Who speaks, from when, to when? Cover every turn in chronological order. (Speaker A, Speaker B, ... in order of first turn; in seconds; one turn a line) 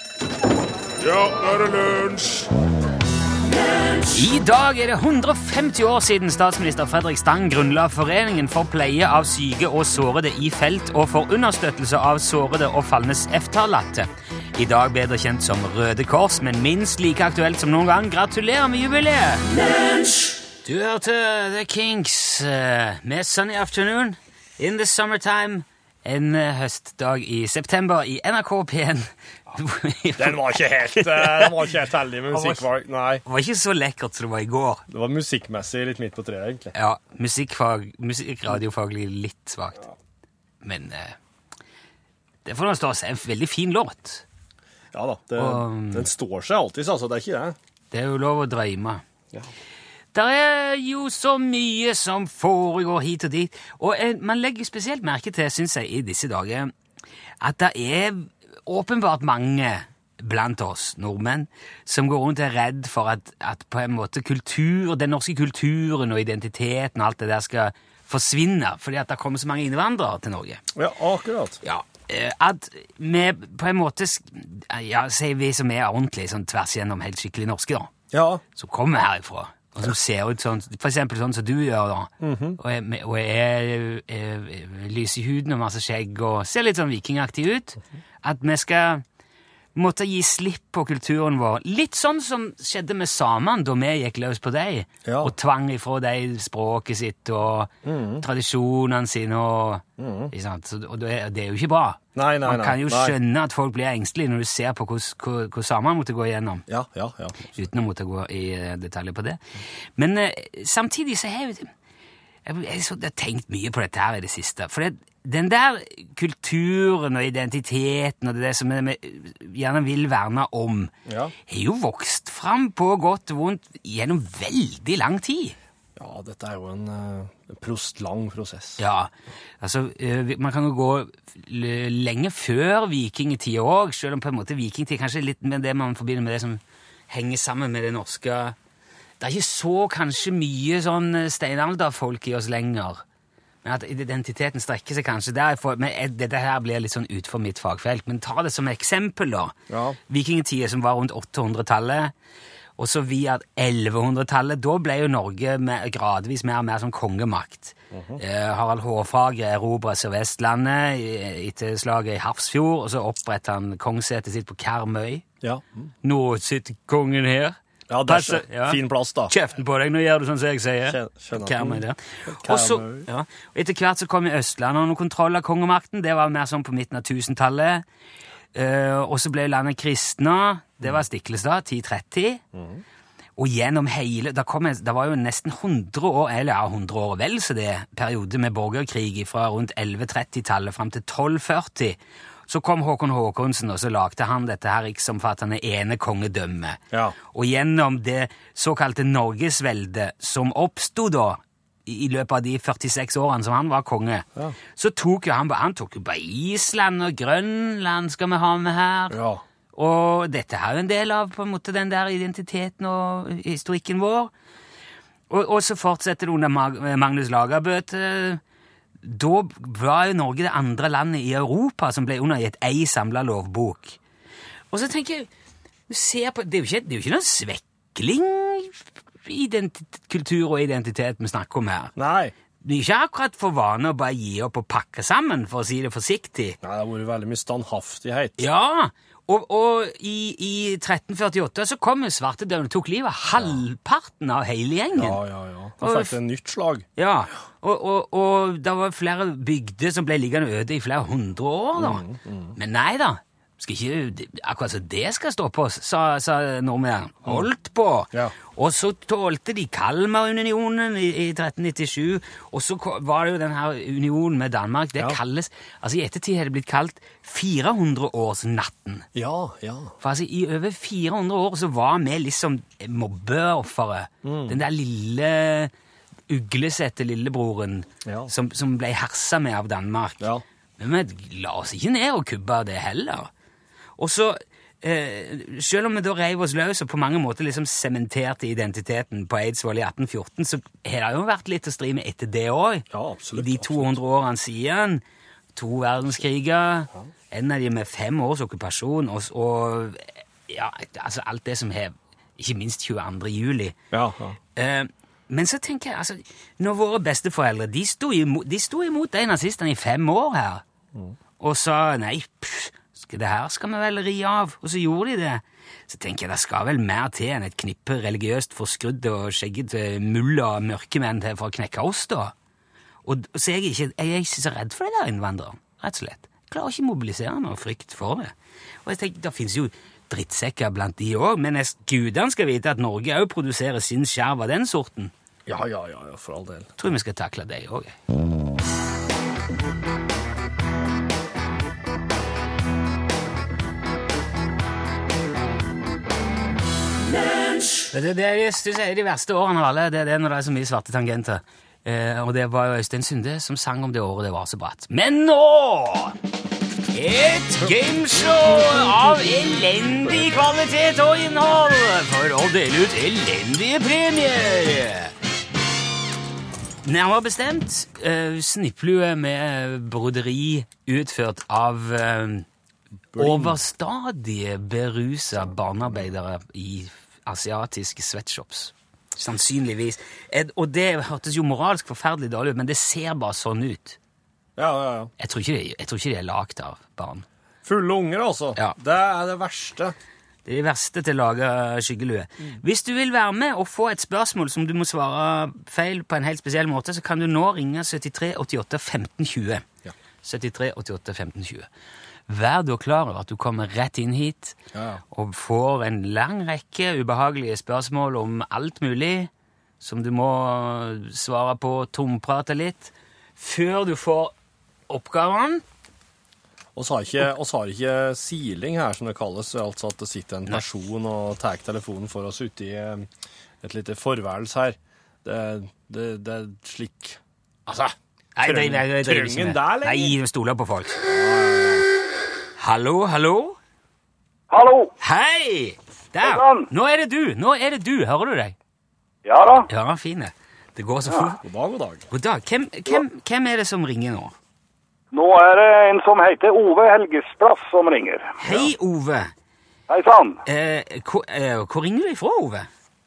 Speaker A: 4.1-19.4
Speaker A: 20.6-31.7
Speaker B: 30.2-33.2
Speaker A: 32.3-32.6
Speaker A: 33.2-34.8
Speaker B: 34.9-36.7
Speaker A: 36.7-39.8
Speaker A: 40.6-41.1
Speaker A: 42.4-44.2
Speaker B: 44.9-47.5
Speaker A: 45.4-46.1
Speaker A: 47.9-49.0
Speaker A: 50.1-56.7
Speaker A: 57.4-70.6
Speaker B: 70.7-71.6
Speaker A: 71.6-77.9
Speaker B: 78.1-78.4
Speaker A: 78.5-89.0
Speaker B: 82.2-82.6
Speaker A: 89.7-106.6
Speaker B: 95.0-95.3
Speaker B: 97.8-98.2
Speaker B: 100.0-100.3
Speaker B: 102.1-103.2
Speaker B: 106.7-107.5
Speaker A: 107.5-109.4
Speaker A: 110.0-111.7
Speaker A: 112.5-120.9
Speaker B: 121.0-121.3
Speaker A: 121.5-125.5
Speaker B: 126.0-128.8
Speaker A: 128.8-138.5
Speaker A: 139.2-143.0
Speaker A: 143.6-149.6
Speaker B: 149.7-150.0
Speaker A: 150.1-152.1
Speaker A: 152.8-165.2
Speaker B: 157.9-158.2
Speaker B: 165.4-165.9
Speaker A: 166.0-167.6
Speaker B: 167.9-169.3
Speaker A: 168.1-177.8
Speaker B: 170.9-173.1
Speaker A: 178.5-182.4
Speaker B: 182.5-182.8
Speaker A: 183.4-209.2
Speaker B: 196.9-197.2
Speaker B: 209.1-209.4
Speaker A: 209.7-214.3
Speaker A: 215.3-218.4
Speaker A: 219.0-224.0
Speaker A: 224.7-225.3
Speaker A: 225.9-231.9
Speaker B: 231.9-232.3
Speaker A: 232.6-236.6
Speaker B: 236.6-238.4
Speaker A: 238.4-245.2
Speaker B: 243.3-243.6
Speaker B: 244.9-246.8
Speaker A: 245.8-246.2
Speaker A: 246.9-252.0
Speaker B: 251.8-252.5
Speaker A: 252.6-269.1
Speaker B: 269.1-269.9
Speaker A: 270.0-275.7
Speaker B: 274.2-274.6
Speaker A: 276.3-280.2
Speaker B: 278.0-278.3
Speaker A: 280.8-283.3
Speaker A: 284.0-292.8
Speaker B: 292.9-294.0
Speaker A: 293.4-295.0
Speaker A: 295.5-303.8
Speaker B: 303.9-304.4
Speaker A: 304.6-310.6
Speaker A: 311.4-322.3
Speaker A: 323.0-328.3
Speaker A: 328.8-335.1
Speaker B: 335.4-336.7
Speaker A: 336.8-337.9
Speaker A: 347.9-356.1
Speaker A: 356.9-365.1
Speaker B: 358.2-359.4
Speaker A: 366.8-372.4
Speaker B: 373.1-373.6
Speaker A: 373.2-384.0
Speaker B: 375.4-376.1
Speaker B: 384.6-385.1
Speaker A: 385.2-387.2
Speaker B: 387.6-389.9
Speaker A: 390.4-399.6
Speaker A: 400.2-401.7
Speaker A: 402.3-404.6
Speaker B: 404.7-405.0
Speaker A: 405.1-414.3
Speaker A: 414.9-415.6
Speaker B: 416.8-423.1
Speaker B: 423.6-427.2
Speaker A: 427.7-431.0
Speaker B: 428.4-430.1
Speaker B: 431.0-431.9
Speaker A: 432.6-433.6
Speaker C: 434.5-434.9
Speaker A: 435.0-438.5
Speaker C: 436.2-436.7
Speaker C: 439.2-439.7
Speaker A: 439.7-441.4
Speaker B: 441.4-442.0
Speaker A: 442.1-444.3
Speaker C: 445.1-448.3
Speaker A: 448.4-449.3
Speaker C: 449.9-450.4
Speaker A: 450.4-452.7